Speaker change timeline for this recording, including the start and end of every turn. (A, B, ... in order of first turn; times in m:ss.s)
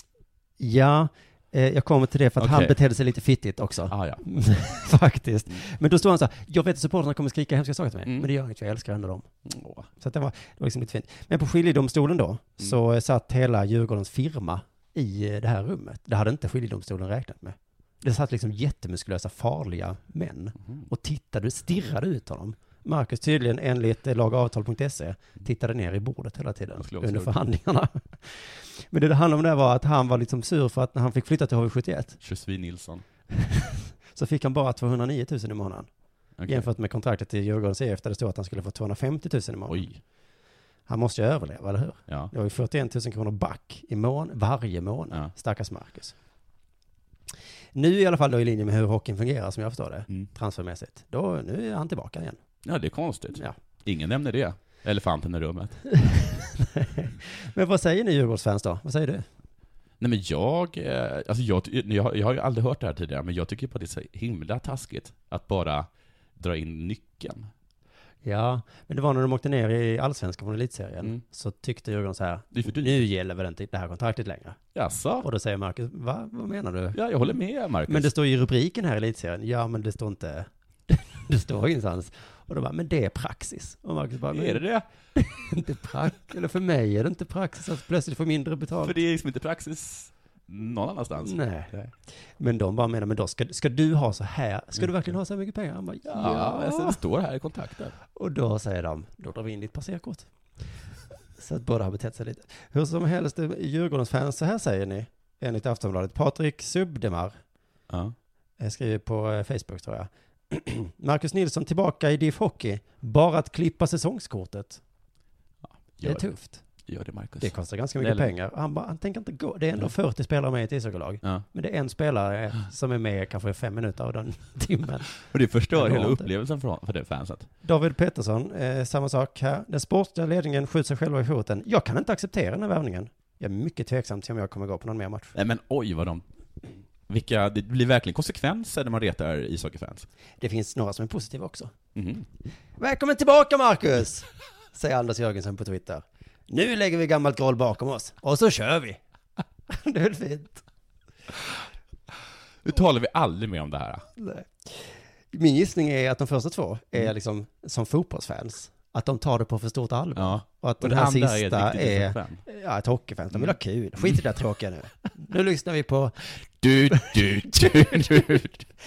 0:00.6-0:09.3 A
0:02.4-0:02.7 B
0:03.9-0:04.3 B
0:09.4-0:09.9 B
0:10.0-0:32.2 A
0:26.8-0:27.3 B
0:32.2-0:33.0 B
0:33.3-0:35.9 A
0:36.4-0:36.7 B
0:36.5-0:39.9 A
0:39.7-0:40.0 B
0:40.9-0:46.1 A
0:47.7-0:52.4 A
0:52.6-0:55.8 B
0:56.0-0:59.3 A
1:00.0-1:07.5 B
1:08.2-1:14.6 A
1:12.5-1:13.0 B
1:14.7-1:15.3 B
1:15.2-1:17.0 A
1:16.9-1:18.1 B
1:17.9-1:24.6 A
1:24.3-1:24.8 B
1:25.1-1:29.0 A
1:28.8-1:31.9 B
1:31.2-1:31.7 A
1:32.3-1:37.0 A
1:36.1-1:38.0 B
1:38.1-1:40.3 A
1:41.4-1:47.4 A
1:47.9-1:48.1 B
1:48.6-1:54.8 A
1:55.6-1:56.2 B
1:56.0-1:56.6 A
1:56.9-1:58.3 B
1:57.4-2:05.1 A
2:05.3-2:07.5 B
2:05.7-2:06.3 A
2:07.6-2:15.3 A
2:15.4-2:16.2 B
2:17.1-2:20.1 B
2:20.4-2:21.7 A
2:22.0-2:22.3 B
2:22.8-2:29.0 A
2:29.7-2:30.6 A
2:32.6-2:34.0 B
2:34.2-2:46.3 A
2:40.2-2:42.4 B
2:43.3-2:44.2 B
2:46.6-2:48.6 B
2:46.9-2:48.4 A